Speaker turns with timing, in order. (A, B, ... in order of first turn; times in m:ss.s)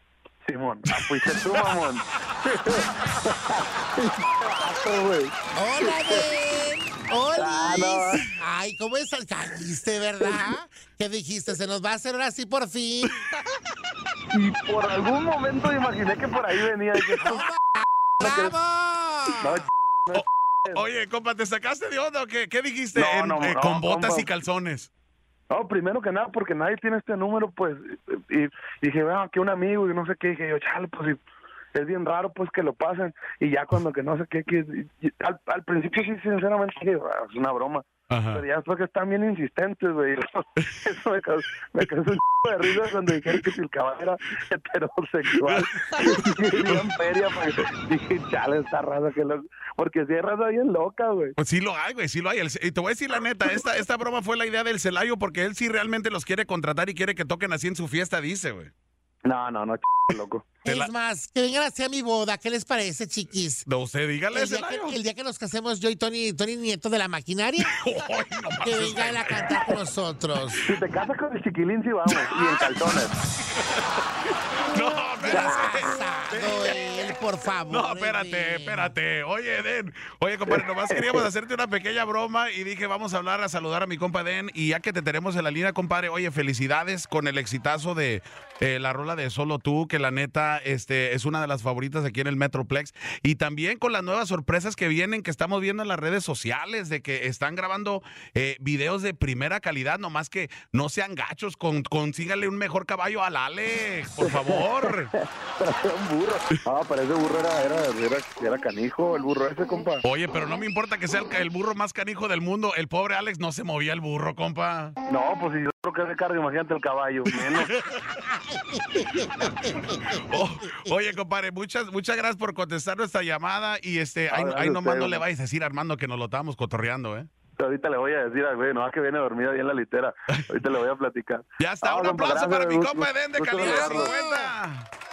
0:00.4-0:06.3 A
0:00.9-0:01.8 B
0:05.6-0:13.2 C
0:07.4-0:08.3 A
0:14.3-0:17.5 A
0:17.2-0:19.6 C
0:18.2-0:18.6 A
0:19.4-0:20.8 A
0:20.1-0:24.9 B
0:23.0-0:24.3 A
0:25.5-0:31.2 A
0:31.7-0:51.4 A
0:38.1-0:38.4 B
0:45.4-0:46.1 B
0:51.4-0:58.7 B
0:59.2-1:00.4 A
1:00.6-1:03.7 C
1:00.7-1:00.9 B
1:03.6-1:05.0 B
1:04.3-1:07.8 C
1:07.6-1:09.8 B
1:08.6-1:10.6 C
1:10.6-1:13.1 A
1:12.1-1:17.1 B
1:15.3-1:19.0 C
1:15.3-1:15.8 A
1:17.7-1:45.1 B
1:20.5-1:21.3 A
1:44.2-1:50.0 A
1:50.0-1:55.0 B
1:55.1-1:57.8 A
1:57.3-1:58.1 B
1:58.1-2:00.2 C
2:00.1-2:07.3 B
2:04.3-2:05.2 A
2:07.6-2:14.1 A
2:10.3-2:10.6 B
2:11.6-2:14.9 B
2:13.6-2:14.5 C